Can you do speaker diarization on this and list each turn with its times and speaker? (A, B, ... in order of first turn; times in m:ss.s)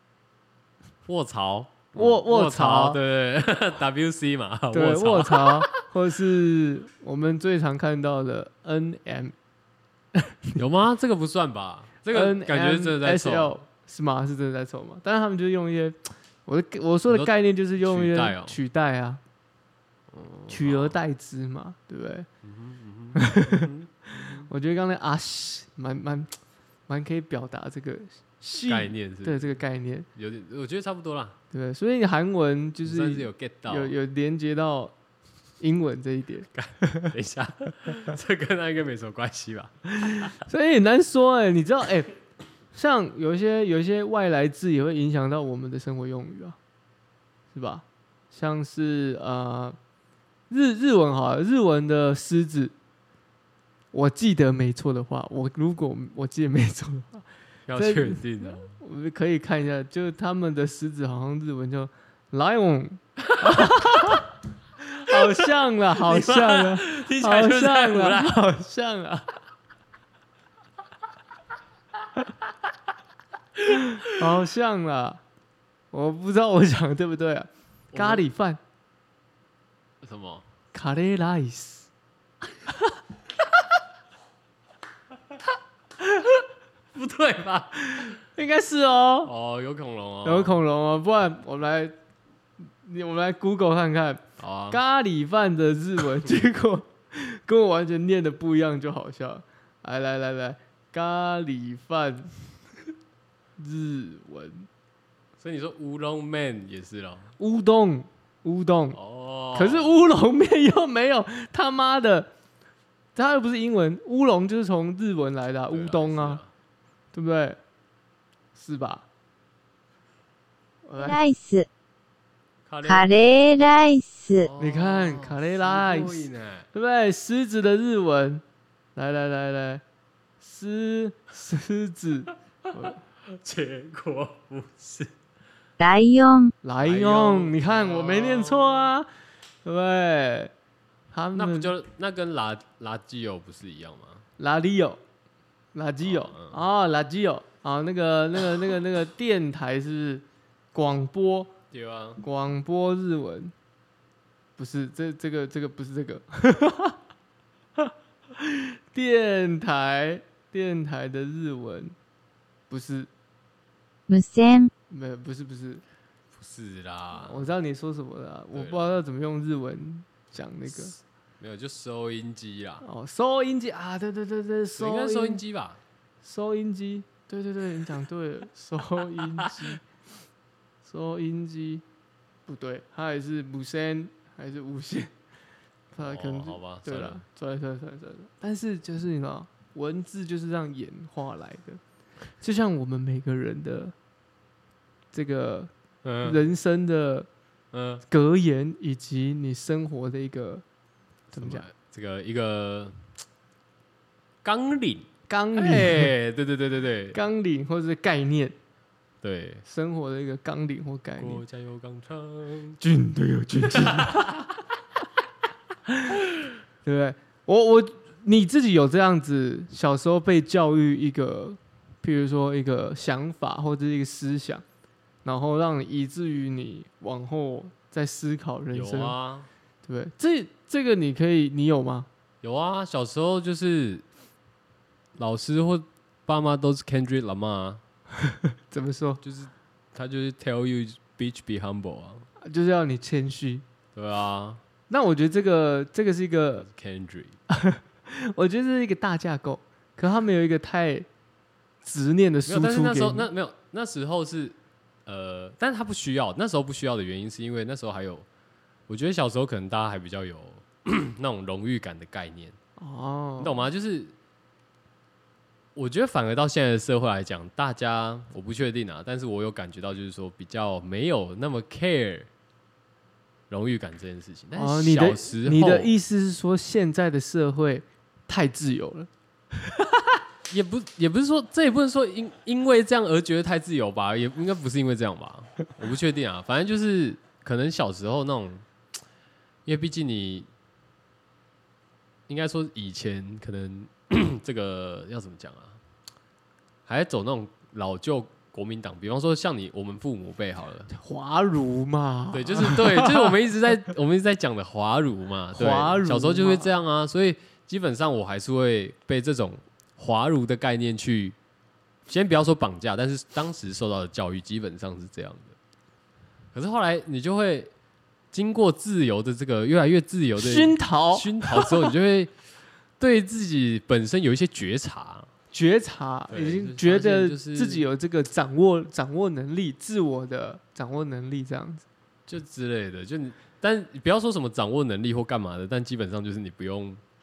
0:01.0-0:05.8 A
0:02.0-0:03.0 B
0:04.7-0:09.3 B
0:10.1-0:10.6 B
0:10.6-0:13.6 A
0:12.1-0:19.2 B
0:17.1-0:18.6 A
0:20.1-0:21.0 A
0:20.5-0:22.3 B
0:22.4-0:24.5 A
0:23.2-0:26.4 B
0:26.9-0:30.1 B
0:28.6-0:29.5 A
0:30.2-0:31.4 A
0:31.5-0:34.9 B
0:32.8-0:34.0 A
0:35.6-0:37.1 B
0:36.5-0:40.3 A
0:40.0-0:42.1 B
0:42.7-0:46.6 B
0:47.5-0:49.8 B
0:50.5-0:52.7 B
0:53.9-0:58.2 B
0:57.7-0:58.8 A
0:58.8-1:04.3 B
1:03.3-1:04.1 A
1:04.9-1:09.3 B
1:05.1-1:05.4 A
1:06.0-1:08.4 A
1:14.0-1:15.2 B
1:15.9-1:18.6 B
1:17.9-1:18.2 A
1:20.0-1:20.4 A
1:20.7-1:21.9 B
1:27.0-1:28.2 A
1:27.9-1:29.3 B
1:29.2-1:30.6 A
1:30.2-1:32.0 B
1:32.8-1:42.4 B
1:34.4-1:34.8 A
1:43.6-1:44.7 B
1:45.4-1:47.3 A
1:47.4-1:49.0 B
1:48.9-1:49.9 A
1:49.5-1:52.3 B
1:53.2-1:56.4 B
1:55.7-1:56.5 A
1:57.1-1:57.6 B
1:58.6-1:59.0 B
2:00.8-2:01.2 B
2:01.0-2:01.7 C
2:02.7-2:03.1 A
2:02.8-2:04.5 C
2:04.4-2:06.7 A
2:04.6-2:08.4 B
2:09.0-2:09.8 B
2:10.4-2:13.0 B
2:12.7-2:15.1 A
2:15.8-2:16.5 C
2:16.6-2:19.1 B
2:16.8-2:18.9 A
2:19.6-2:20.5 B
2:21.1-2:21.7 B
2:21.3-2:24.2 A
2:24.4-2:25.0 B
2:25.7-2:31.5 B
2:26.0-2:26.6 A
2:31.7-2:32.2 A
2:32.2-2:33.5 B
2:34.6-2:37.0 B
2:37.8-2:42.0 B
2:42.7-2:43.1 B
2:44.1-2:44.7 C
2:44.9-2:45.8 B
2:46.4-2:47.5 A
2:47.2-2:51.0 B
2:48.5-2:48.9 A
2:51.4-2:52.8 A
2:52.8-2:55.4 B
2:54.8-2:55.8 A
2:56.2-2:59.8 B
2:59.3-2:59.7 A
3:00.8-3:01.8 B
3:02.5-3:05.1 B
3:05.9-3:11.8 B
3:06.0-3:07.2 A
3:12.4-3:14.0 B
3:15.1-3:15.7 B
3:16.0-3:16.4 A
3:16.2-3:17.3 B
3:17.7-3:18.0 A
3:18.1-3:20.6 B
3:21.3-3:21.6 B
3:21.3-3:23.0 A
3:24.4-3:27.2 A
3:25.3-3:26.1 B
3:27.1-3:28.6 B
3:29.2-3:29.6 A
3:29.7-3:31.4 B
3:31.2-3:32.8 A
3:32.8-3:34.3 B
3:33.7-3:34.5 A
3:35.9-3:36.2 B
3:36.8-3:44.6 B
3:45.2-3:49.2 B
3:48.7-3:49.5 A
3:49.8-3:52.1 B
3:52.4-3:54.0 A
3:55.2-3:57.8 A
3:58.3-3:59.2 B
3:59.2-4:02.3 A
4:02.4-4:03.6 B
4:04.0-4:04.6 A
4:04.9-4:06.7 B
4:06.6-4:07.4 A
4:07.5-4:11.1 B
4:11.8-4:13.3 B
4:12.5-4:18.3 A
4:18.9-4:22.6 A
4:22.8-4:23.6 B
4:23.4-4:24.1 A
4:25.8-4:32.3 A
4:33.5-4:36.0 A
4:34.6-4:39.1 B
4:39.6-4:40.1 B
4:40.5-4:48.7 A
4:49.7-4:50.5 A
4:52.3-4:55.8 A
4:56.9-5:00.9 A
5:00.9-5:03.4 B
5:02.3-5:11.4 A
5:05.5-5:06.7 B
5:12.1-5:15.6 A
5:16.5-5:17.7 A
5:18.3-5:22.3 A
5:20.4-5:21.9 B
5:23.0-5:25.3 A
5:25.5-5:31.8 B
5:26.3-5:27.9 A
5:32.3-5:37.0 A